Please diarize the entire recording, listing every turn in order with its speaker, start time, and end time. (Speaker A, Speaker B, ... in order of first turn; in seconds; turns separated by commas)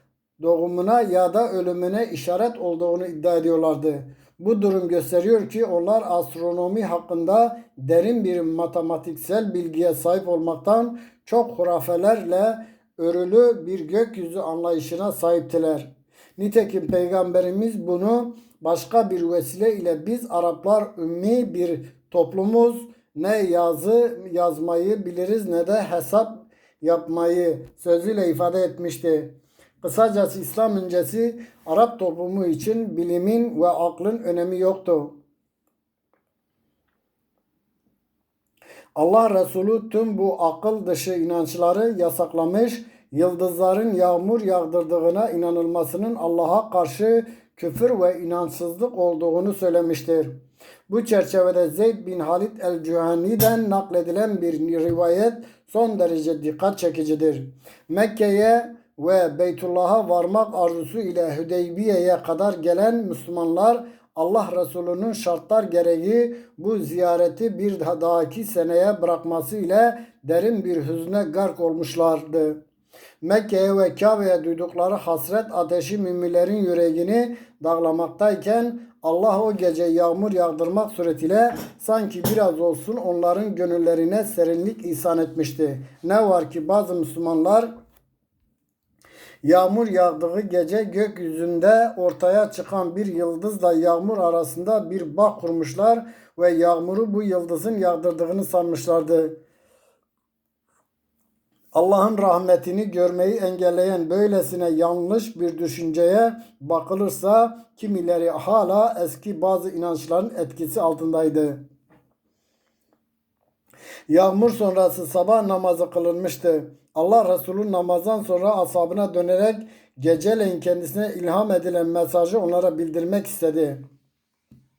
Speaker A: 0.4-35.2, Speaker A: 39.0-50.3, Speaker A: 50.9-72.6, Speaker A: 73.2-87.7, Speaker A: 89.4-99.4, Speaker A: 101.7-111.6, Speaker A: 114.1-123.8